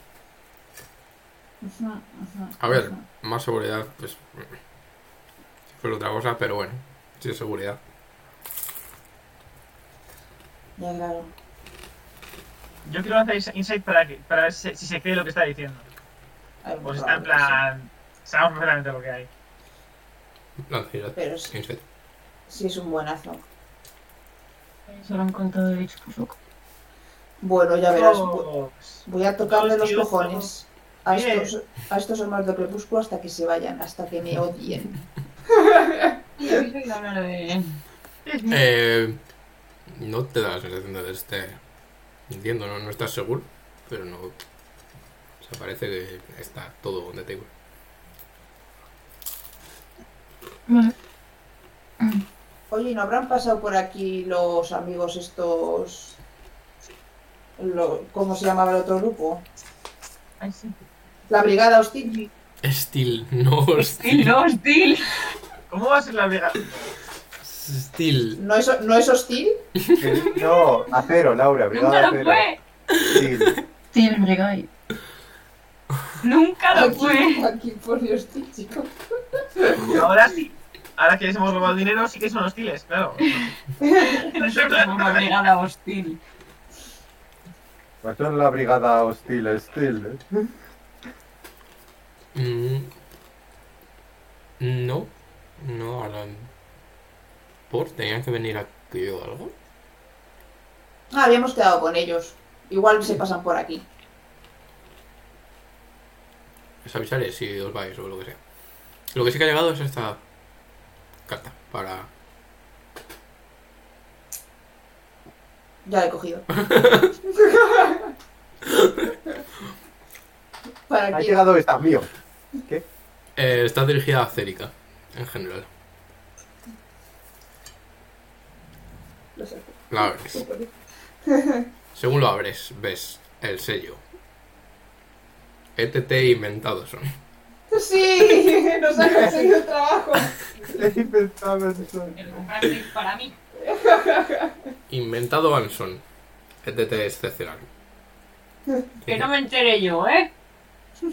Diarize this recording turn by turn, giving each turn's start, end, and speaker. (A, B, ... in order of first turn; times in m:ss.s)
0:01.6-0:03.0 A
0:02.6-0:04.6 B
0:05.7-0:07.8 B
0:10.8-0:11.3 A
0:12.8-0:15.8 C
0:16.6-0:17.6 A
0:16.8-0:19.3 C
0:20.7-0:21.8 B
0:21.2-0:21.5 A
0:22.5-0:23.5 A
0:24.9-0:26.4 D
0:27.4-0:28.5 A
0:27.9-0:30.5 C
0:29.1-0:35.0 A
0:31.1-0:31.5 C
0:35.5-0:36.5 A
0:36.4-0:37.8 E
0:38.3-0:38.6 C
0:38.5-0:39.2 B
0:39.9-0:41.6 B
0:42.3-0:44.4 B
0:45.4-0:47.5 B
0:50.7-0:50.9 D
0:52.7-0:56.2 A
0:57.6-0:59.5 A
1:00.4-1:00.8 C
1:01.3-1:02.3 A
1:02.6-1:04.3 B
1:03.8-1:05.4 E
1:05.7-1:06.8 C
1:07.4-1:08.4 B
1:08.4-1:09.6 A
1:10.0-1:12.5 F
1:10.3-1:10.9 E
1:11.7-1:12.6 E
1:13.0-1:13.6 F
1:13.9-1:14.7 D
1:16.2-1:17.5 E
1:16.7-1:20.1 A
1:19.8-1:23.5 C
1:23.2-1:26.2 E
1:23.8-1:24.2 A
1:24.3-1:25.3 C
1:28.0-1:30.5 F
1:32.3-1:32.9 B
1:34.6-1:36.5 B
1:37.7-1:39.6 B
1:41.1-1:43.9 A
1:46.8-1:48.4 B
1:49.1-1:50.2 B
1:51.3-1:52.1 B
1:55.9-1:56.5 A
1:56.6-1:57.1 B
1:57.3-1:58.1 A
1:58.7-1:59.1 B
2:00.9-2:01.4 A
2:01.1-2:02.1 F
2:03.4-2:05.7 B
2:09.4-2:10.7 A
2:09.9-2:10.4 B
2:11.3-2:11.7 A
2:11.9-2:14.0 B
2:15.8-2:17.1 B
2:17.7-2:20.9 A
2:19.1-2:19.4 F
2:20.7-2:22.2 F
2:22.1-2:23.4 E
2:23.6-2:24.7 A
2:24.9-2:26.0 B
2:26.6-2:27.7 B
2:29.0-2:29.3 B
2:29.1-2:30.3 E